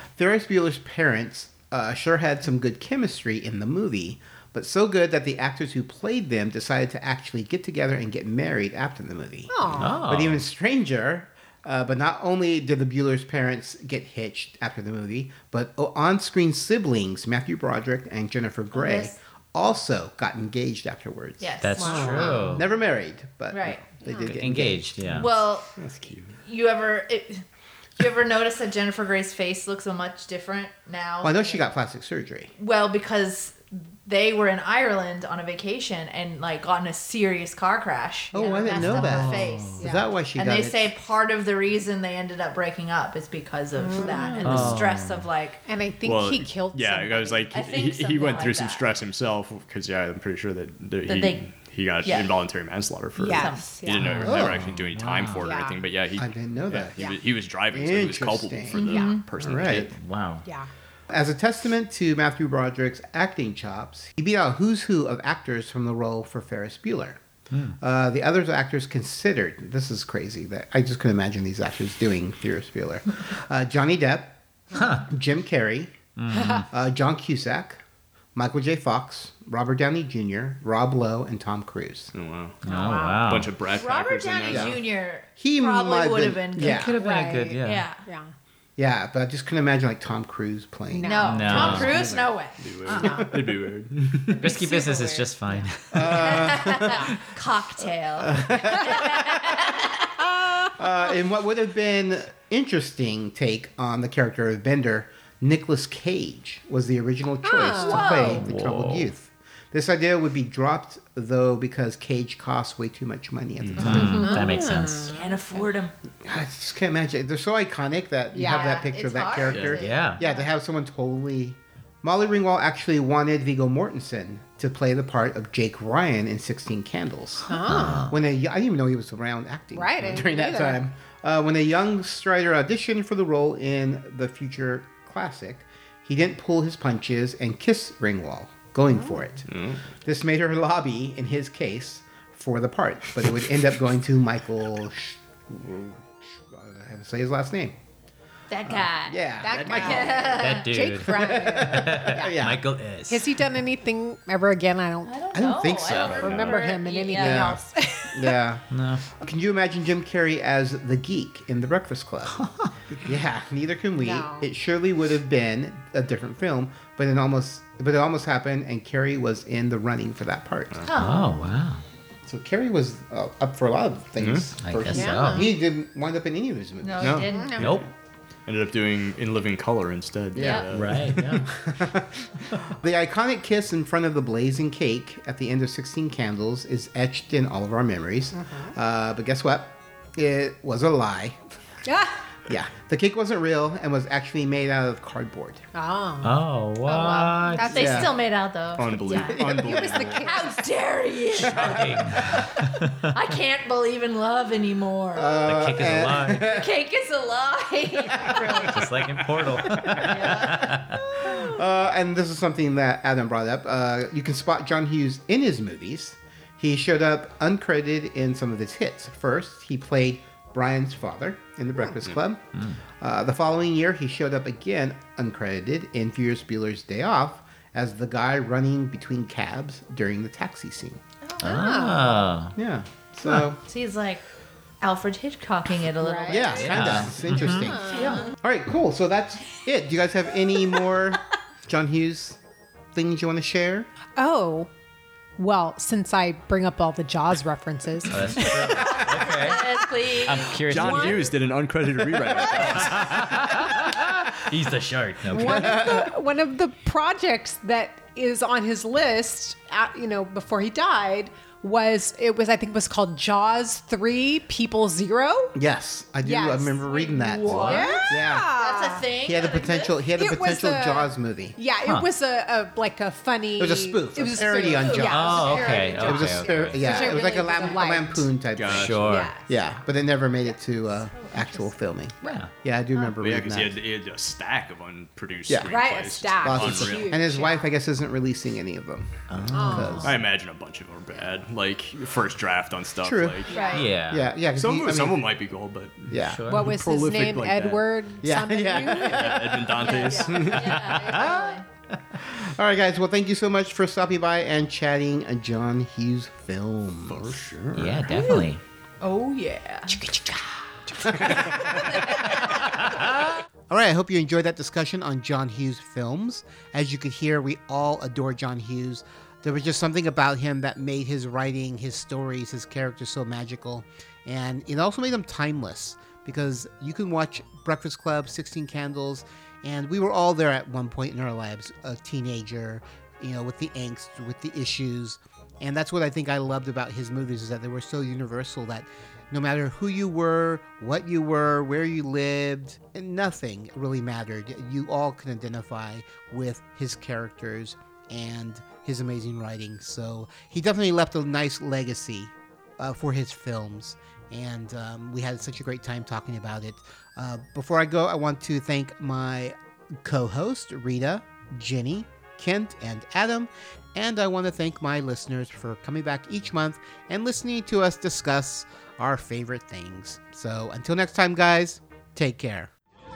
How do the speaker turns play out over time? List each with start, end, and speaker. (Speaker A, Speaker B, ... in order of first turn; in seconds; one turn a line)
Speaker A: 0.2-24.9
Speaker B: 9.5-10.0
Speaker C: 9.8-10.4
Speaker D: 18.7-19.2
Speaker D: 21.4-22.7
Speaker C: 21.6-22.7
Speaker B: 21.8-22.5
Speaker D: 23.5-23.9
Speaker B: 24.0-24.4
Speaker C: 24.3-25.3
Speaker D: 25.1-25.7
Speaker E: 25.8-26.3
Speaker D: 26.4-27.4
Speaker D: 28.0-31.7
Speaker A: 31.2-32.5
Speaker D: 32.6-39.8
Speaker A: 38.3-40.9
Speaker C: 38.7-39.8
Speaker B: 39.8-40.1
Speaker D: 40.4-45.6
Speaker B: 43.8-44.8
Speaker C: 44.4-45.3
Speaker B: 45.7-47.5
Speaker E: 46.0-59.9
Speaker D: 47.5-49.0
Speaker D: 51.0-51.5
Speaker D: 52.0-52.4
Speaker B: 53.2-54.2
Speaker D: 53.3-53.7
Speaker C: 54.0-55.5
Speaker A: 54.2-54.7
Speaker B: 55.4-55.8
Speaker A: 56.2-57.1
Speaker A: 57.7-58.9
Speaker D: 58.8-59.2
Speaker B: 58.8-59.2
Speaker A: 59.4-59.9
Speaker C: 59.5-60.5
Speaker A: 61.1-67.2
Speaker C: 67.5-67.8
Speaker A: 67.8-74.4
Speaker C: 74.7-75.1
Speaker A: 75.0-75.9
Speaker C: 76.2-76.7
Speaker B: 76.3-76.7
Speaker A: 76.7-77.8
Speaker A: 78.3-82.1
Speaker E: 82.1-82.6
Speaker B: 82.6-83.3
Speaker C: 82.6-83.5
Speaker E: 83.2-84.8
Speaker D: 83.7-86.8
Speaker A: 84.5-84.8
Speaker A: 85.4-86.9
Speaker C: 86.6-87.9
Speaker B: 86.6-88.3
Speaker D: 87.6-88.0
Speaker A: 88.8-92.3
Speaker B: 90.9-91.9
Speaker D: 91.0-93.2
Speaker C: 91.2-91.9
Speaker E: 92.6-94.5
Speaker B: 93.0-93.3
Speaker A: 93.0-93.3
Speaker C: 94.3-96.6
Speaker B: 94.4-95.7
Speaker A: 95.9-97.1
Speaker D: 96.0-100.2
Speaker A: 98.2-99.8
Speaker B: 100.4-100.7
Speaker A: 100.8-114.4
Speaker B: 107.4-108.2
Speaker D: 107.7-108.5
Speaker C: 108.3-109.1
Speaker E: 113.6-114.2
Speaker C: 113.8-115.1
Speaker B: 114.0-115.4
Speaker D: 115.1-115.9
Speaker A: 116.2-147.8
Speaker B: 118.3-118.8
Speaker D: 118.4-120.4
Speaker E: 119.4-119.8
Speaker C: 119.8-120.2
Speaker B: 127.5-128.2
Speaker C: 127.6-128.1
Speaker B: 129.7-130.8
Speaker B: 138.9-139.2
Speaker E: 139.5-139.8
Speaker D: 148.5-150.7
Speaker A: 148.6-150.5
Speaker B: 149.4-152.4
Speaker C: 150.2-153.4
Speaker A: 151.1-152.6
Speaker B: 153.1-155.2
Speaker D: 155.1-157.6
Speaker A: 155.3-156.6
Speaker E: 155.9-156.7
Speaker B: 156.2-158.4
Speaker A: 157.1-162.4
Speaker C: 158.7-159.0
Speaker C: 162.4-162.7
Speaker A: 163.0-170.9
Speaker B: 164.0-164.5
Speaker D: 170.9-171.3
Speaker C: 170.9-171.8
Speaker A: 172.3-177.3
Speaker E: 174.2-174.4
Speaker C: 174.6-175.5
Speaker B: 174.9-175.5
Speaker D: 176.8-177.8
Speaker E: 177.0-177.8
Speaker B: 177.3-177.7
Speaker C: 177.6-177.9
Speaker E: 178.5-181.4
Speaker D: 180.3-180.7
Speaker A: 180.4-180.6
Speaker C: 180.7-181.5
Speaker A: 181.3-191.4
Speaker B: 188.3-188.8
Speaker B: 191.9-192.2
Speaker A: 192.5-195.6
Speaker B: 195.7-196.3
Speaker C: 196.2-197.9
Speaker B: 196.9-198.1
Speaker D: 197.6-199.6
Speaker A: 197.7-198.1
Speaker E: 198.8-200.3
Speaker B: 199.2-200.6
Speaker A: 199.5-200.1
Speaker D: 200.2-205.4
Speaker A: 201.4-202.4
Speaker C: 201.5-203.1
Speaker A: 205.1-206.7
Speaker C: 205.4-206.5
Speaker D: 206.4-208.9
Speaker A: 208.1-208.9
Speaker C: 208.7-211.1
Speaker A: 209.6-222.4
Speaker D: 209.9-210.8
Speaker C: 222.5-222.8
Speaker A: 223.0-231.0
Speaker D: 231.2-231.9
Speaker B: 231.4-232.1
Speaker C: 231.4-232.5
Speaker A: 232.6-233.6
Speaker D: 233.7-234.2
Speaker D: 234.8-237.1
Speaker B: 236.0-236.8
Speaker A: 236.3-242.4
Speaker C: 236.6-237.7
Speaker B: 237.4-238.3
Speaker D: 237.9-238.3
Speaker A: 242.9-243.9
Speaker B: 244.2-244.7
Speaker B: 245.4-249.7
Speaker C: 248.1-251.3
Speaker D: 248.4-250.5
Speaker B: 250.4-251.3
Speaker E: 250.7-253.6
Speaker C: 252.7-255.8
Speaker B: 255.3-265.6
Speaker A: 255.3-256.1
Speaker A: 265.6-268.5
Speaker B: 266.2-266.8
Speaker D: 266.9-270.0
Speaker B: 267.5-269.1
Speaker C: 267.5-267.8
Speaker A: 269.2-271.6
Speaker B: 270.1-278.3
Speaker C: 271.8-272.1
Speaker A: 273.6-283.8
Speaker C: 274.9-276.8
Speaker D: 276.8-277.8
Speaker E: 278.5-279.3
Speaker C: 278.7-279.3
Speaker B: 279.1-279.5
Speaker D: 280.4-281.7
Speaker C: 282.2-282.5
Speaker E: 283.2-287.2
Speaker A: 285.5-285.8
Speaker B: 285.6-287.7
Speaker A: 286.4-290.1
Speaker C: 289.3-290.1
Speaker B: 289.5-290.1
Speaker E: 290.0-293.7
Speaker A: 293.0-293.5
Speaker D: 293.5-293.9
Speaker B: 293.5-293.8
Speaker C: 293.7-294.3
Speaker A: 294.1-295.3
Speaker E: 294.5-298.0
Speaker A: 296.1-296.5
Speaker C: 296.2-296.7
Speaker B: 296.5-301.4
Speaker A: 298.2-300.8
Speaker E: 299.0-301.2
Speaker D: 299.7-301.6
Speaker A: 302.2-307.4
Speaker E: 307.1-308.2
Speaker C: 307.7-308.6
Speaker D: 308.1-308.4
Speaker D: 309.0-310.0
Speaker A: 309.9-372.7
Speaker D: 311.3-312.8